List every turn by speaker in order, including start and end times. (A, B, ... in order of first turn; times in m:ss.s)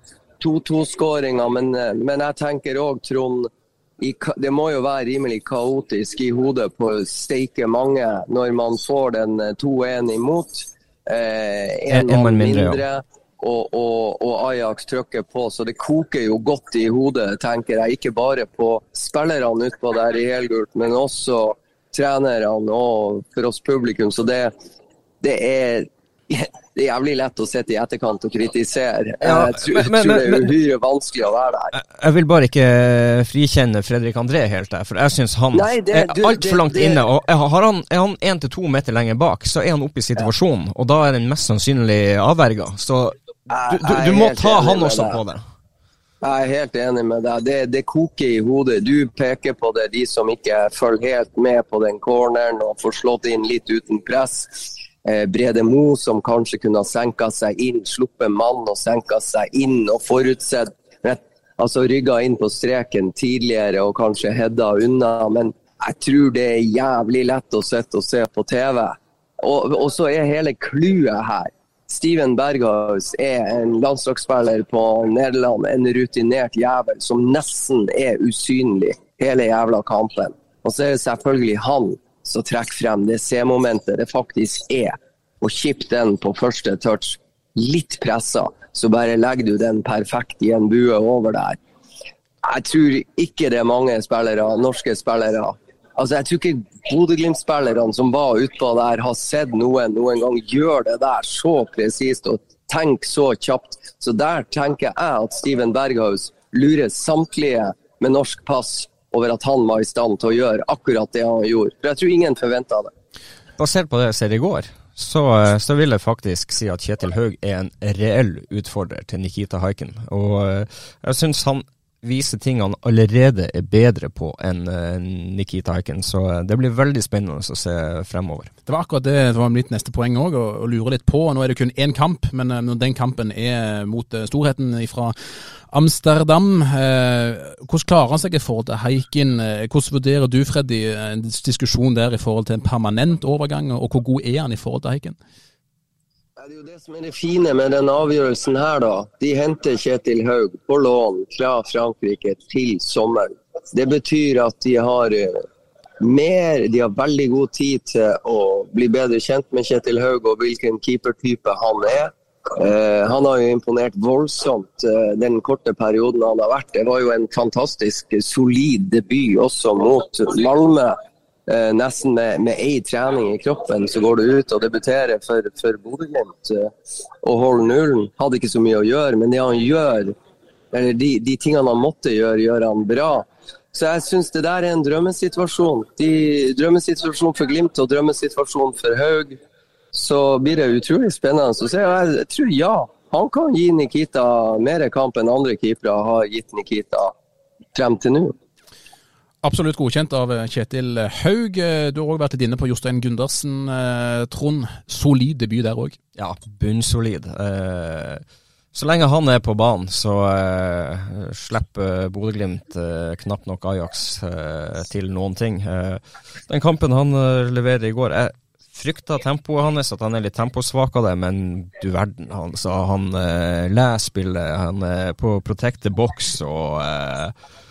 0:00.4-0:24.5 A
0:11.9-0:12.8 B
0:25.2-0:31.7 A
0:29.2-0:30.5 B
0:31.7-0:43.1 B
0:35.5-0:37.0 A
0:43.5-0:45.2 A
0:43.7-0:45.4 B
0:46.2-1:31.6 A
1:32.4-1:52.9 A
1:53.6-2:08.5 B
2:08.7-2:15.1 C
2:15.7-2:25.2 C
2:26.4-2:35.4 A
2:36.0-2:51.0 A
2:51.5-2:56.7 A
2:57.2-3:00.2 A
3:00.7-3:09.4 A
3:09.9-3:17.1 A
3:17.7-3:18.4 A
3:19.4-3:26.0 C
3:26.2-3:47.3 B